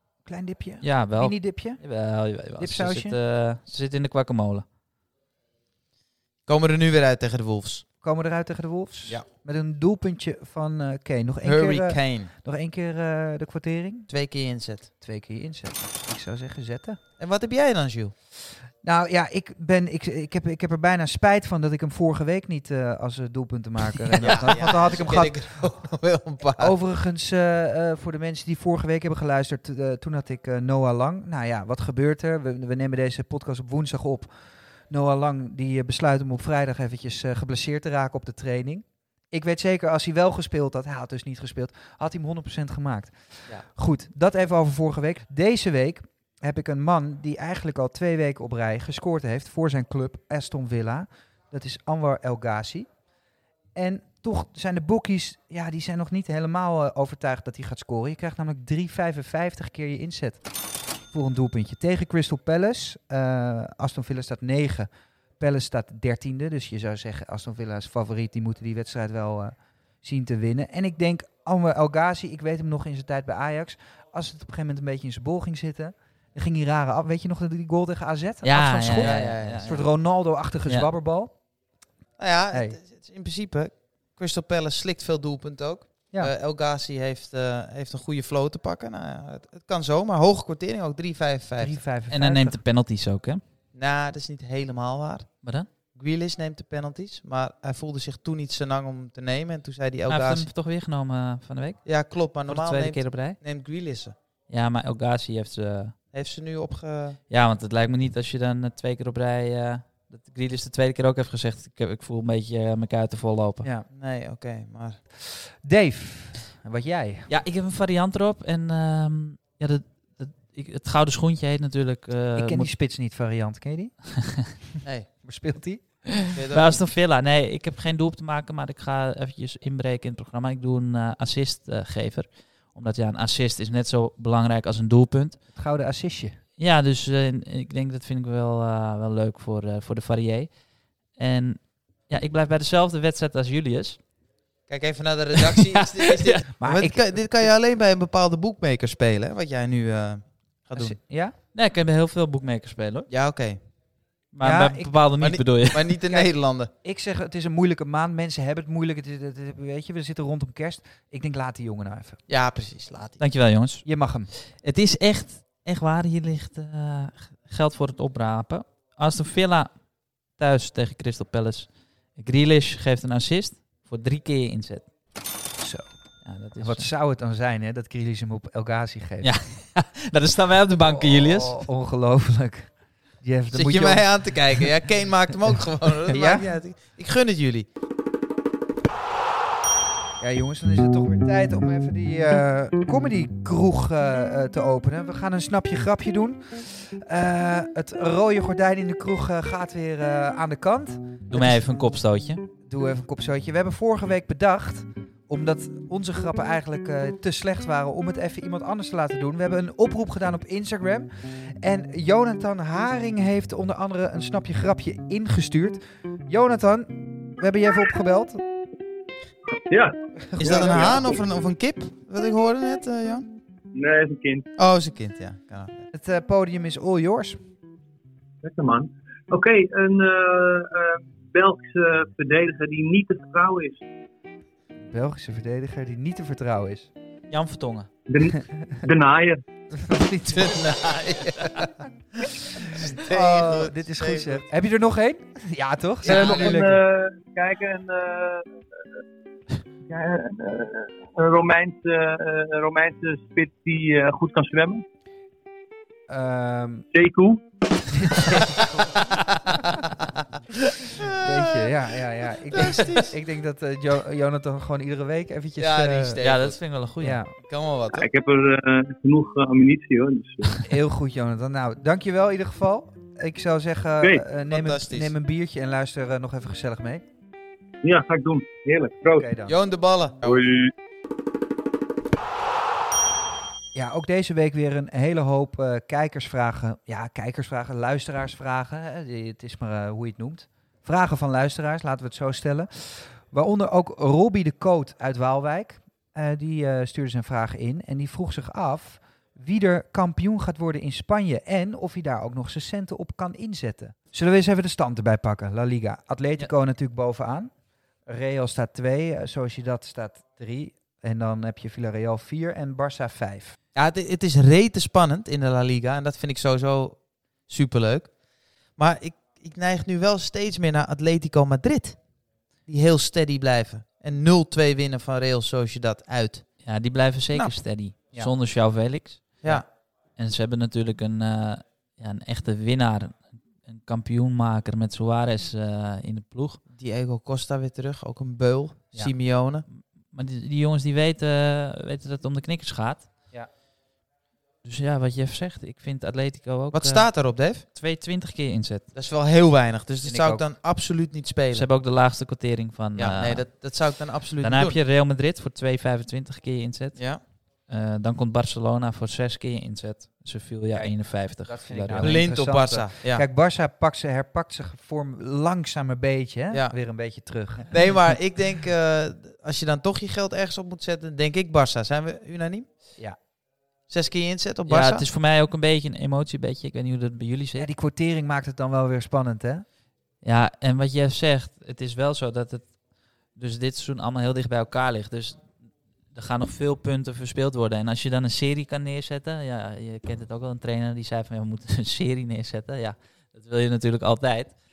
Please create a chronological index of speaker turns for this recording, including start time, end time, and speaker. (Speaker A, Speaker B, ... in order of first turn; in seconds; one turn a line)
Speaker A: 0.2-1.8
Speaker B: 0.8-4.6
Speaker A: 2.6-3.2
Speaker C: 6.5-7.8
Speaker A: 8.0-14.1
Speaker C: 11.4-12.3
Speaker C: 14.1-14.9
Speaker A: 15.0-17.0
Speaker C: 17.2-18.1
Speaker A: 18.8-25.6
Speaker C: 24.2-26.7
Speaker A: 26.6-34.3
Speaker A: 34.9-52.9
Speaker A: 53.7-60.4
Speaker A: 61.1-81.3
Speaker B: 78.4-79.8
Speaker C: 78.9-79.8
Speaker C: 82.2-91.8
Speaker A: 82.5-82.8
Speaker A: 91.6-92.6
Speaker B: 92.1-93.4
Speaker C: 93.7-95.3
Speaker B: 95.4-95.7
Speaker C: 95.9-100.5
Speaker B: 100.1-103.4
Speaker C: 101.8-104.1
Speaker B: 104.5-105.9
Speaker C: 106.1-107.2
Speaker B: 107.3-113.7
Speaker A: 113.6-113.9
Speaker C: 113.9-115.0
Speaker A: 115.3-117.3
Speaker B: 117.3-122.7
Speaker A: 122.3-123.9
Speaker A: 125.2-126.2
Speaker C: 126.3-126.8
Speaker B: 126.5-135.4
Speaker A: 135.5-136.4
Speaker B: 136.6-140.5
Speaker B: 141.1-144.0
Speaker C: 144.7-151.0
Speaker B: 145.4-146.4
Speaker A: 146.6-147.0
Speaker A: 150.7-151.3
Speaker B: 151.5-153.1
Speaker C: 153.1-153.6
Speaker B: 154.3-155.8
Speaker A: 154.4-154.9
Speaker C: 155.2-156.7
Speaker A: 156.1-162.2
Speaker C: 162.3-163.2
Speaker B: 163.2-163.8
Speaker A: 163.8-164.3
Speaker B: 164.6-169.7
Speaker B: 170.3-174.9
Speaker A: 175.6-175.9
Speaker B: 176.2-176.9
Speaker A: 176.6-179.3
Speaker B: 179.2-181.6
Speaker A: 180.8-184.7
Speaker C: 183.5-187.7
Speaker A: 186.1-186.4
Speaker A: 190.2-201.6
Speaker B: 201.3-202.4
Speaker A: 202.7-211.1
Speaker A: 211.6-218.4
Speaker D: 219.7-221.1
Speaker A: 220.3-221.0
Speaker C: 220.4-223.3
Speaker D: 223.7-224.4
Speaker C: 224.6-225.8
Speaker A: 225.9-227.4
Speaker D: 228.4-233.8
Speaker A: 234.9-236.9
Speaker B: 237.3-237.9
Speaker D: 238.1-239.4
Speaker A: 238.4-238.7
Speaker A: 239.7-240.6
Speaker C: 240.3-244.4
Speaker A: 243.0-246.8
Speaker D: 246.0-248.5
Speaker C: 246.1-246.5
Speaker D: 249.9-254.8
Speaker A: 256.1-256.8
Speaker D: 256.9-257.4
Speaker A: 258.1-258.6
Speaker C: 260.9-261.7
Speaker A: 261.2-266.2
Speaker C: 262.5-263.1
Speaker C: 265.6-266.6
Speaker B: 266.2-267.2
Speaker A: 267.0-267.3
Speaker C: 267.4-268.1
Speaker D: 267.9-270.6
Speaker A: 270.6-277.0
Speaker C: 274.5-275.1
Speaker D: 277.8-279.3
Speaker A: 279.1-279.5
Speaker C: 279.5-280.5
Speaker D: 280.2-280.7
Speaker A: 283.7-307.5
Speaker A: 308.1-313.6
Speaker C: 313.7-322.1
Speaker C: 322.6-326.5
Speaker B: 326.6-336.6
Speaker C: 336.7-339.6
Speaker B: 340.1-343.1
Speaker B: 344.6-348.9
Speaker C: 346.7-347.6
Speaker C: 348.9-351.6
Speaker A: 350.0-350.4
Speaker B: 351.5-353.9
Speaker C: 353.0-354.8
Speaker B: 354.4-362.2
Speaker C: 356.9-357.2
Speaker A: 360.7-368.0
Speaker C: 361.9-363.2
Speaker C: 367.7-372.7
Speaker C: 373.9-375.0
Speaker B: 374.7-377.7
Speaker A: 377.6-379.6
Speaker B: 380.2-382.7
Speaker B: 383.3-385.4
Speaker B: 386.1-394.6